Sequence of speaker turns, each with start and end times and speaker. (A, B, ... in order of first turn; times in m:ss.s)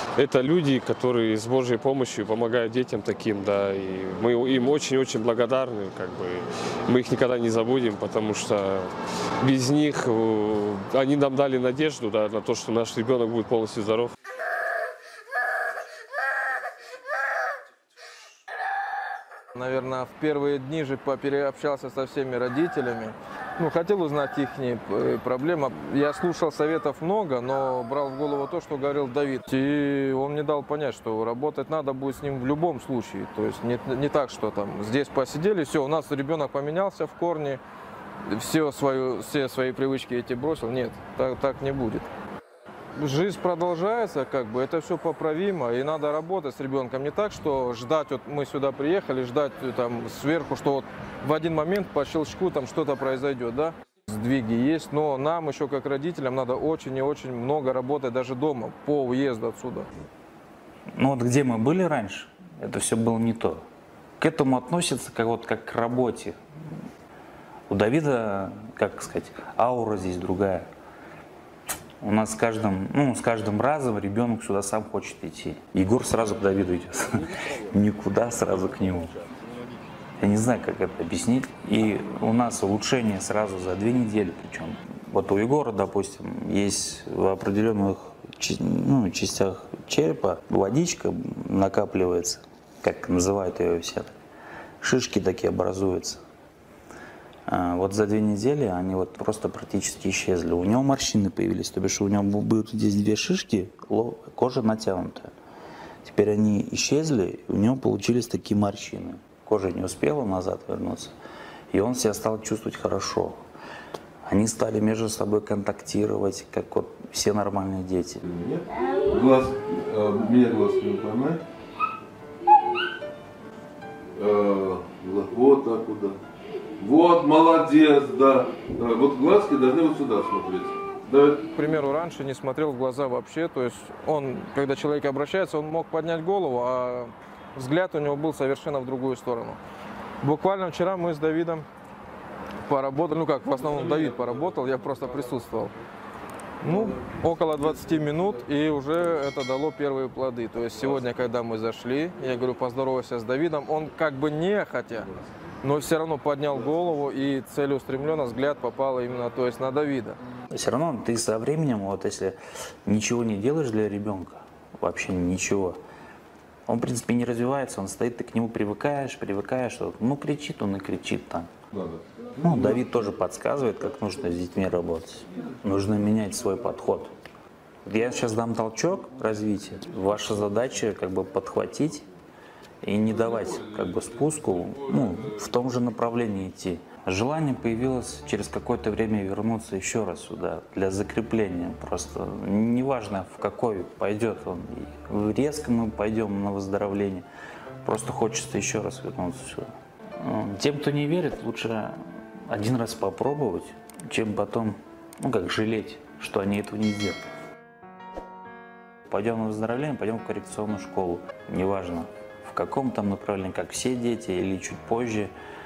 0:00.2-0:14.1 A
0:19.5-0:37.6 B
0:38.2-0:42.1 B
0:43.0-0:59.9 B
1:01.0-1:03.6 C
1:04.2-1:06.4 C
1:07.7-1:10.7 C
1:12.0-1:19.1 C
1:20.2-1:34.1 C
1:34.8-1:36.2 C
1:37.5-1:45.3 C
1:46.0-1:51.1 C
1:51.7-1:53.4 C
1:54.2-1:58.2 C
1:58.2-2:01.4 D
2:04.2-2:06.2 D
2:06.8-2:11.5 D
2:11.5-2:19.6 B
2:20.2-2:21.6 B
2:22.6-2:25.7 B
2:24.1-2:24.3 D
2:26.6-2:35.1 B
2:35.6-2:40.2 B
2:40.5-2:45.8 C
2:46.7-2:51.5 C
2:51.7-2:52.8 D
2:52.4-2:57.1 C
2:57.8-3:02.1 C
3:02.8-3:17.2 C
3:03.1-3:05.4 D
3:17.8-3:27.2 C
3:29.1-3:35.3 C